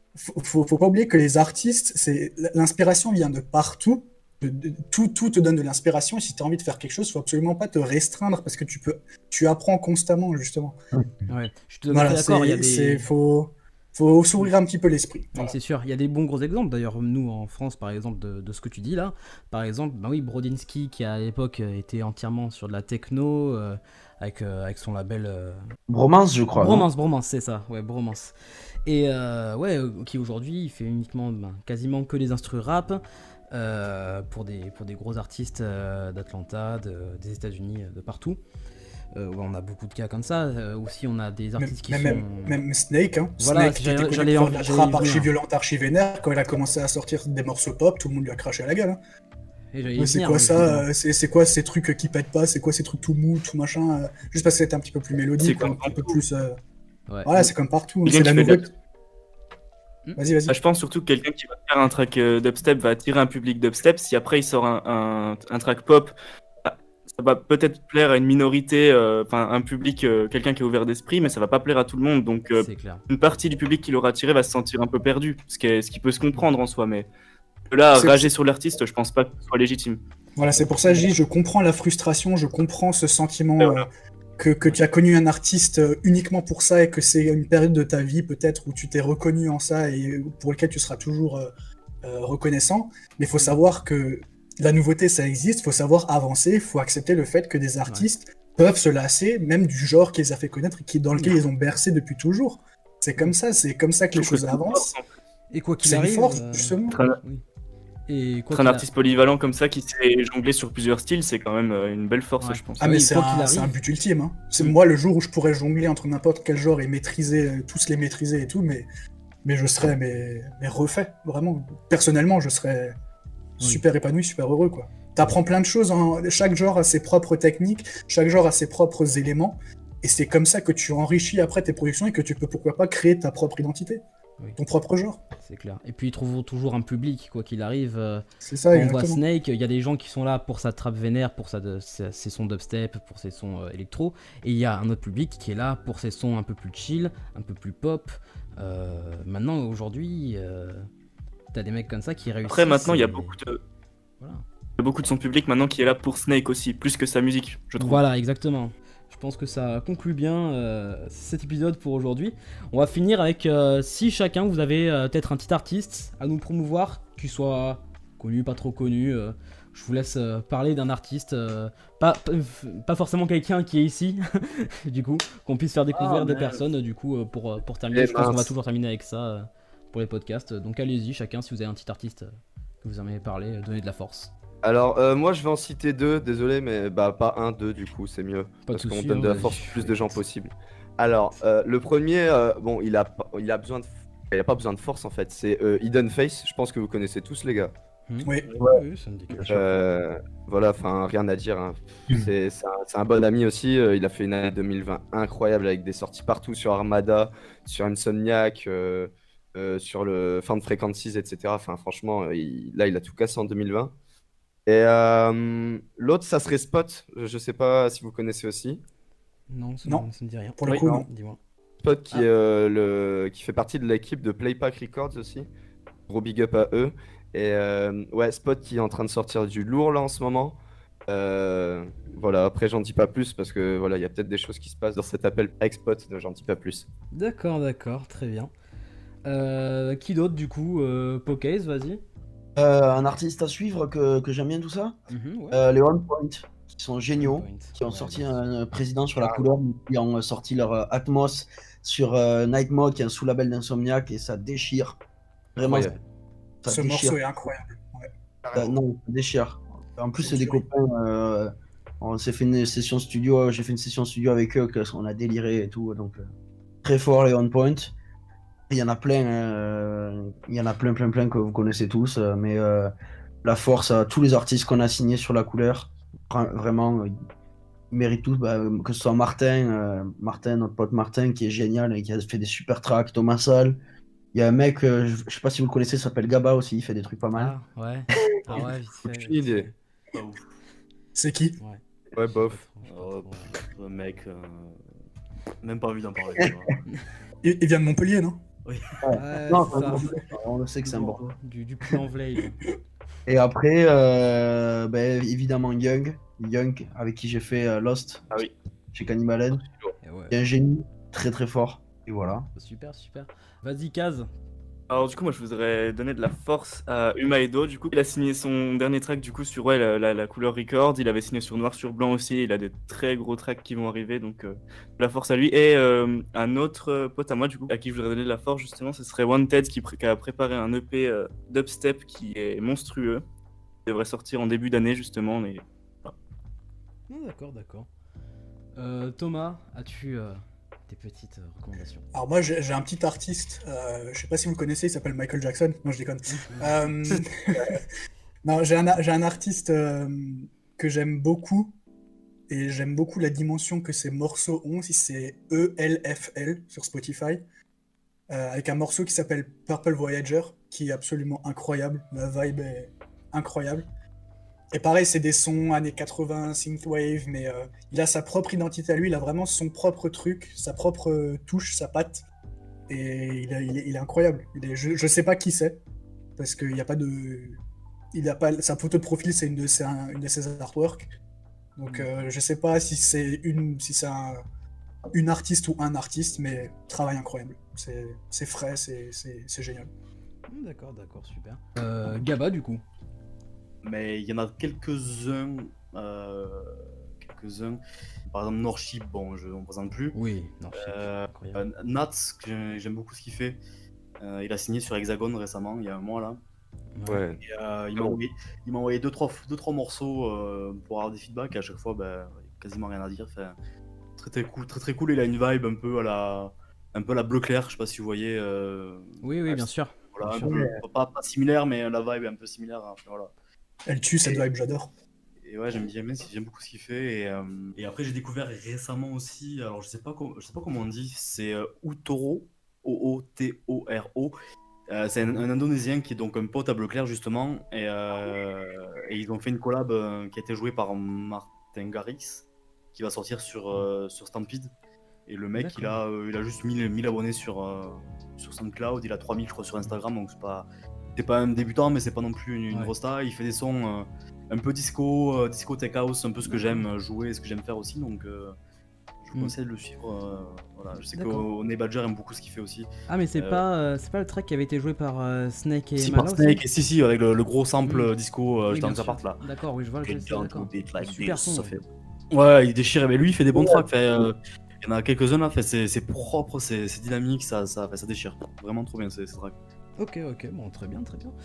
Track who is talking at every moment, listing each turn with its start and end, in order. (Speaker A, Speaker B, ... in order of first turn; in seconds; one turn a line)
Speaker A: 0.1-10.8
Speaker B: 11.3-13.0
Speaker A: 11.9-15.6
Speaker B: 15.3-25.6
Speaker C: 25.9-26.9
Speaker B: 26.5-28.3
Speaker B: 28.9-33.0
Speaker B: 33.5-38.4
Speaker B: 39.1-42.6
Speaker A: 41.6-49.0
Speaker B: 43.4-45.3
Speaker B: 49.7-50.9
Speaker A: 50.0-56.6
Speaker D: 55.4-56.2
Speaker A: 57.2-58.7
Speaker D: 58.0-58.7
Speaker A: 60.1-60.6
Speaker D: 60.5-77.1
Speaker B: 72.5-73.0
Speaker D: 77.7-80.0
Speaker A: 77.9-78.3
Speaker A: 80.4-83.9
Speaker D: 83.6-83.9
Speaker A: 84.4-91.5
Speaker A: 92.0-104.9
Speaker D: 104.1-105.0
Speaker B: 105.5-107.4
Speaker A: 105.8-107.0
Speaker D: 106.9-107.2
Speaker B: 108.1-108.9
Speaker D: 108.5-112.8
Speaker B: 112.4-113.7
Speaker A: 112.8-118.9
Speaker A: 119.4-122.9
Speaker A: 123.6-134.0
Speaker A: 134.6-135.2
Speaker B: 135.4-150.9
Speaker A: 138.4-139.2
Speaker B: 151.5-153.3
Speaker D: 152.4-153.6
Speaker D: 154.8-158.0
Speaker B: 157.8-182.3
Speaker E: 175.9-176.6
Speaker F: 177.9-178.5
Speaker B: 182.8-184.3
Speaker F: 184.6-197.7
Speaker B: 188.7-190.2
Speaker B: 198.1-199.7
Speaker A: 198.2-198.5
Speaker F: 199.4-213.9
Speaker F: 214.7-218.8
Speaker B: 219.5-221.4
Speaker A: 220.6-221.1
Speaker F: 221.8-225.5
Speaker F: 226.1-230.6
Speaker F: 231.1-236.8
Speaker B: 237.1-238.5
Speaker B: 239.2-242.0
Speaker C: 242.6-245.0
Speaker B: 245.1-245.6
Speaker C: 245.5-255.0
Speaker B: 247.2-248.4
Speaker F: 249.2-249.5
Speaker C: 255.6-255.9
Speaker F: 255.6-255.9
Speaker C: 256.6-257.2
Speaker A: 256.7-258.1
Speaker F: 258.4-258.8
Speaker C: 258.5-266.2
Speaker A: 260.2-260.6
Speaker C: 266.8-267.9
Speaker C: 268.7-272.9
Speaker C: 273.4-277.1
Speaker C: 277.9-283.8
Speaker C: 284.3-287.5
Speaker B: 287.3-289.7
Speaker F: 288.5-289.7
Speaker E: 290.1-290.4
Speaker A: 291.1-291.6
Speaker F: 292.1-292.6
Speaker B: 292.3-293.6
Speaker E: 292.8-294.9
Speaker E: 295.6-296.8
Speaker A: 297.4-298.4
Speaker E: 298.6-299.1
Speaker C: 299.0-301.2
Speaker B: 299.1-300.1
Speaker E: 299.7-300.0
Speaker B: 300.9-302.6
Speaker E: 301.0-301.2
Speaker C: 303.2-308.4
Speaker C: 308.9-309.6
Speaker B: 310.0-310.3
Speaker C: 310.3-312.5
Speaker B: 312.5-314.3
Speaker D: 314.9-333.2
Speaker D: 333.9-336.1
Speaker B: 337.1-337.9
Speaker B: 338.8-342.1
Speaker A: 342.1-347.8
Speaker B: 346.5-347.2
Speaker A: 348.4-351.7
Speaker A: 352.5-357.4
Speaker A: 358.3-363.9
Speaker A: 364.7-372.2
Speaker A: 372.9-375.8
Speaker A: 376.4-377.6
Speaker A: 378.1-381.1
Speaker A: 381.8-384.4
Speaker A: 385.1-389.9
Speaker B: 390.5-392.8
Speaker E: 393.8-400.1
Speaker B: 400.1-401.6
Speaker E: 400.7-403.6
Speaker E: 404.2-406.4
Speaker B: 406.9-407.2
Speaker F: 407.1-407.4
Speaker E: 407.4-413.6
Speaker E: 414.2-423.3
Speaker B: 419.2-420.6
Speaker C: 420.5-420.8
Speaker A: 423.9-424.9
Speaker E: 425.4-434.3
Speaker E: 434.9-444.7
Speaker E: 445.3-458.5
Speaker B: 445.6-446.0
Speaker B: 456.5-456.9
Speaker E: 459.2-463.6
Speaker B: 461.1-461.5
Speaker B: 463.1-466.6
Speaker E: 466.0-469.4
Speaker B: 467.8-468.1
Speaker B: 468.7-471.7
Speaker E: 470.0-479.5
Speaker B: 480.0-481.3